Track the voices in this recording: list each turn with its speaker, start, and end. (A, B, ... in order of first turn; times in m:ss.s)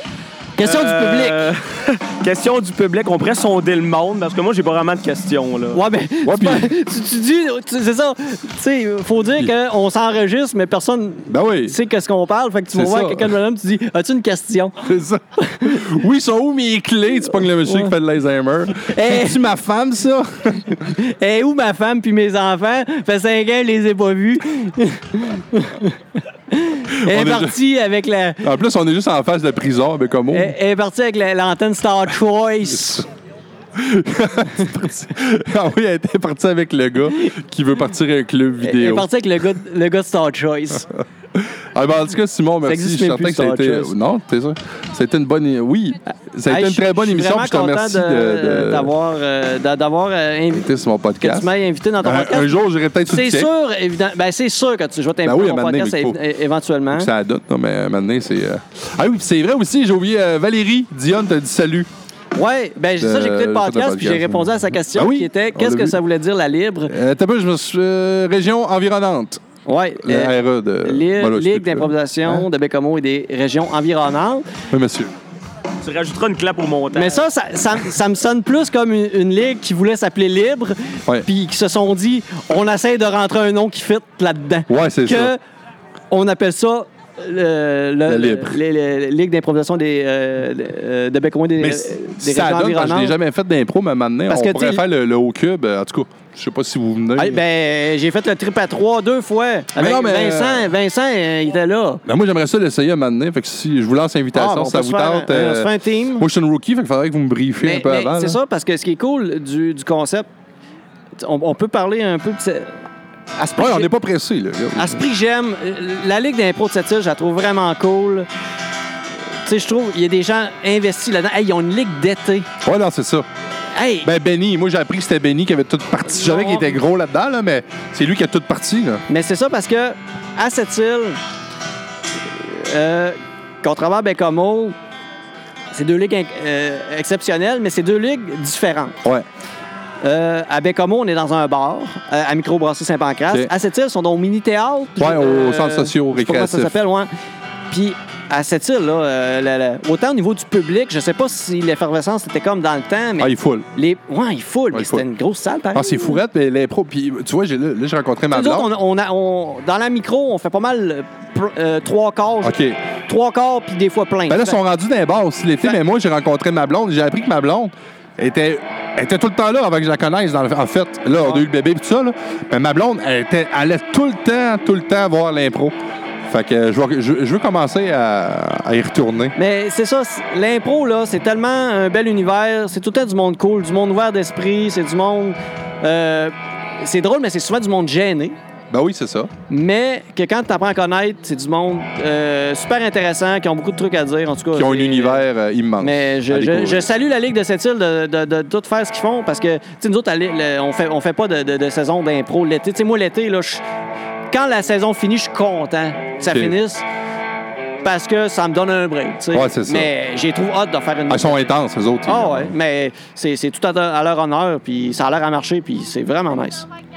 0:00.6-0:01.5 A
0:00.6-0:05.8 B
0:05.7-0:16.0 A
0:06.2-0:06.7 C
0:11.3-0:11.8 C
0:12.7-0:13.3 C
0:14.8-0:20.8 C
0:17.4-0:18.0 A
0:18.8-0:19.5 A
0:20.7-0:26.0 A
0:26.5-0:28.5 A
0:26.9-0:27.6 C
0:28.4-0:30.5 C
0:30.3-0:33.1 A
0:33.8-0:39.1 C
0:38.6-0:40.9 A
0:41.4-0:48.9 C
0:42.6-0:44.0 A
0:46.5-0:50.7 A
0:50.5-0:51.5 C
0:51.2-0:57.1 A
0:52.0-0:53.5 C
0:55.2-0:56.2 C
0:56.9-1:01.9 C
1:02.4-1:06.9 A
1:03.0-1:06.0 C
1:06.9-1:09.4 C
1:09.7-1:14.5 A
1:10.0-1:12.4 C
1:14.7-1:15.1 C
1:15.8-1:17.2 B
1:16.9-1:25.4 A
1:24.7-1:25.3 C
1:26.1-1:33.2 A
1:28.1-1:28.6 C
1:31.6-1:37.4 C
1:34.3-1:34.8 A
1:37.2-1:42.0 A
1:39.8-1:40.7 C
1:42.1-1:48.4 C
1:44.3-1:46.3 A
1:47.6-1:50.3 A
1:51.2-1:52.8 A
1:53.4-1:53.9 A
1:53.6-1:55.0 C
1:54.7-1:58.3 A
1:59.4-2:02.5 A
2:02.6-2:03.3 C
2:03.7-2:04.1 A
2:04.0-2:09.0 C
2:06.1-2:06.8 A
2:09.1-2:11.2 A
2:12.3-2:14.8 A
2:15.7-2:19.0 A
2:20.0-2:27.1 A
2:25.0-2:26.8 C
2:27.7-2:36.2 A
2:33.2-2:33.7 C
2:34.7-2:35.0 C
2:35.7-2:38.7 C
2:38.3-2:44.6 A
2:42.4-2:42.8 C
2:44.3-2:59.4 C
2:59.4-3:08.4 A
3:08.7-3:09.3 C
3:09.5-3:15.2 A
3:14.5-3:16.9 C
3:15.8-3:23.6 A
3:24.3-3:26.9 A
3:27.8-3:31.5 A
3:29.3-3:29.9 C
3:31.1-3:32.5 C
3:32.0-3:36.7 A